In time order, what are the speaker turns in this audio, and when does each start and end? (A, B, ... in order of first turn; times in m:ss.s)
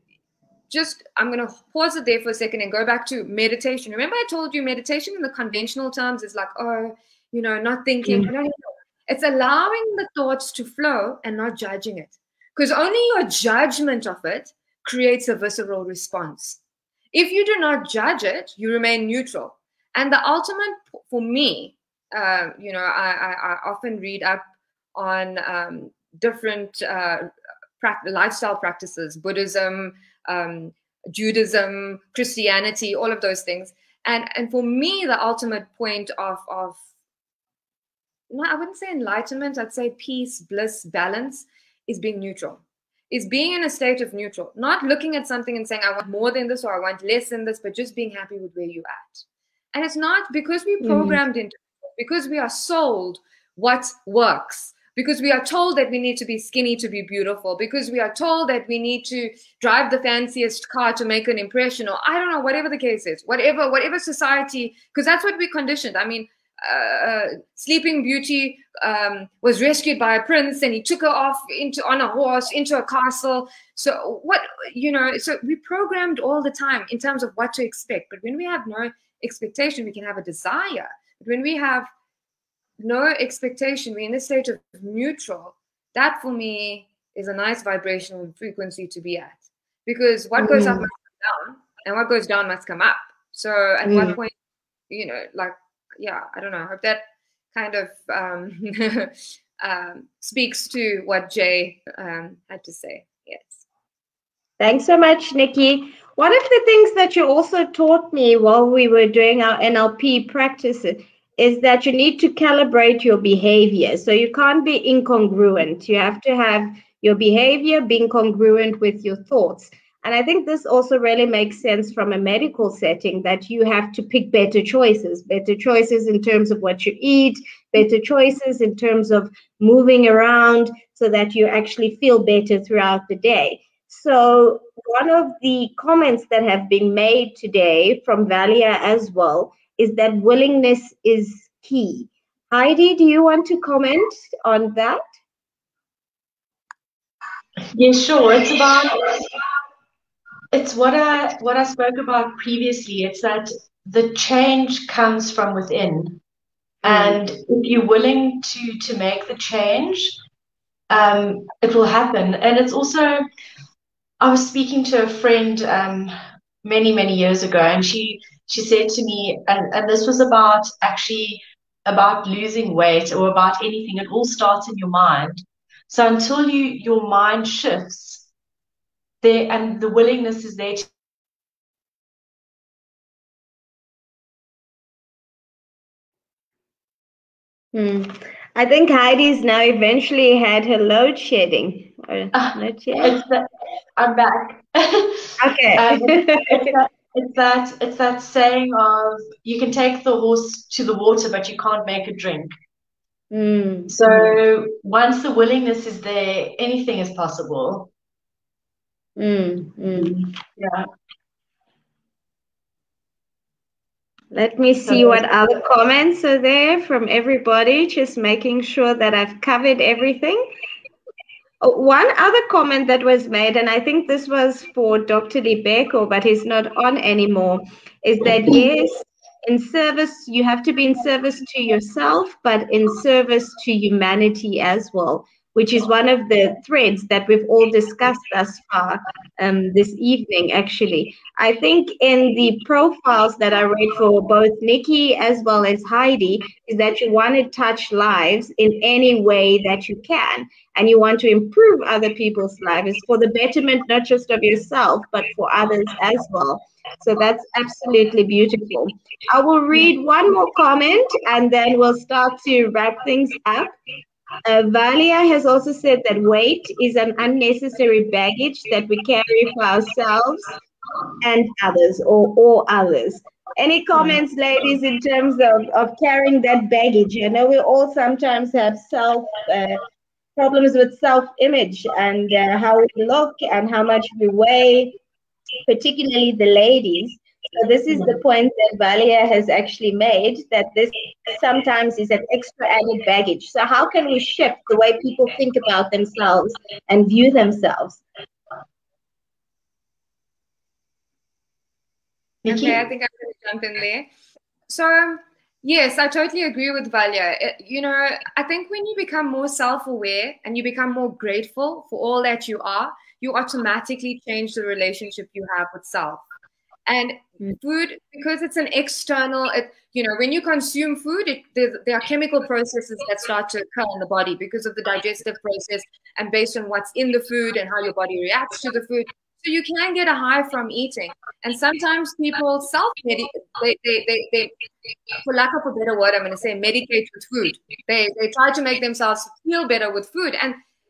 0:00.7-0:16.6 A
0:08.0-0:08.3 B
0:17.1-0:24.4 A
0:25.0-0:27.3 A
0:27.8-0:36.8 A
0:38.3-1:21.9 A
0:50.8-0:51.2 B
1:22.8-1:34.3 A
1:30.4-1:30.9 B
1:33.8-1:34.2 B
1:34.9-1:43.6 A
1:44.6-2:25.0 B
2:27.7-2:29.0 C
2:30.5-2:36.2 C
2:36.8-2:40.2 C
2:36.8-2:37.2 B
2:40.9-2:43.2 C
2:44.2-2:58.3 C
2:59.2-3:00.9 C
3:07.7-3:13.2 B
3:12.3-3:22.5 C
3:15.4-3:16.7 B
3:23.3-3:24.4 B
3:23.9-3:27.9 C
3:29.2-3:30.2 B
3:29.9-3:30.9 C
3:34.3-3:40.4 B
3:34.8-3:35.2 C
3:41.6-4:23.7 B
4:24.4-4:30.5 B
4:31.2-4:39.8 B
4:40.4-4:45.0 B
4:45.6-4:58.0 B
5:02.4-5:02.8 C
5:02.5-5:04.1 A
5:04.7-5:16.2 A
5:16.9-5:34.5 A
5:35.1-5:40.6 A